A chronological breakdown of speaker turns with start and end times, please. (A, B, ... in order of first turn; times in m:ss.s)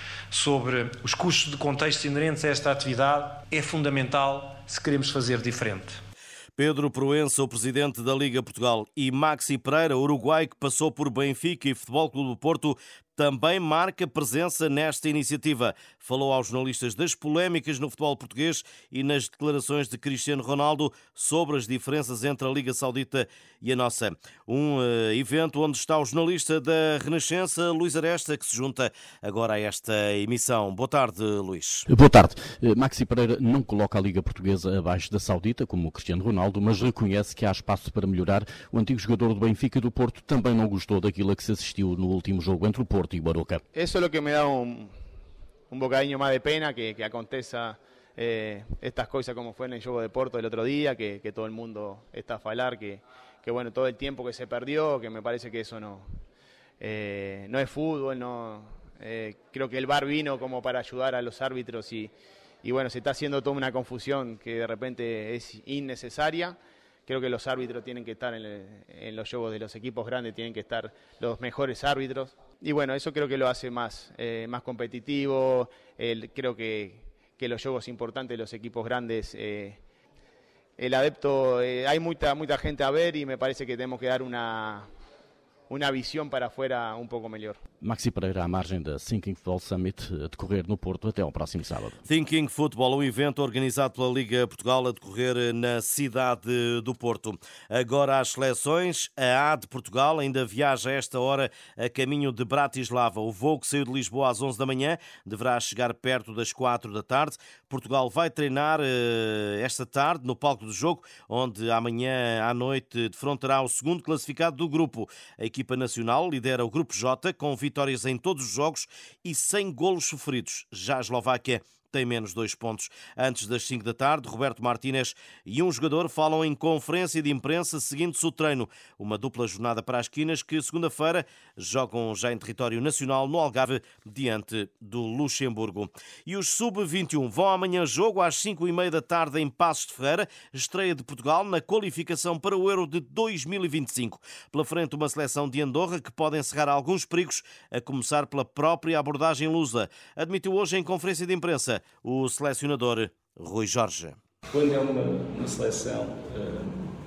0:00.3-0:05.9 A
0:06.6-0:31.8 B
0:31.9-0:43.6 C
0:43.7-0:44.9 D
0:45.7-0:56.1 D
0:56.8-1:02.1 D
1:02.6-1:19.8 D
1:20.8-1:24.9 D
1:25.7-1:27.6 D
1:27.8-1:32.0 C
1:32.0-2:34.2 B
2:34.5-2:36.8 E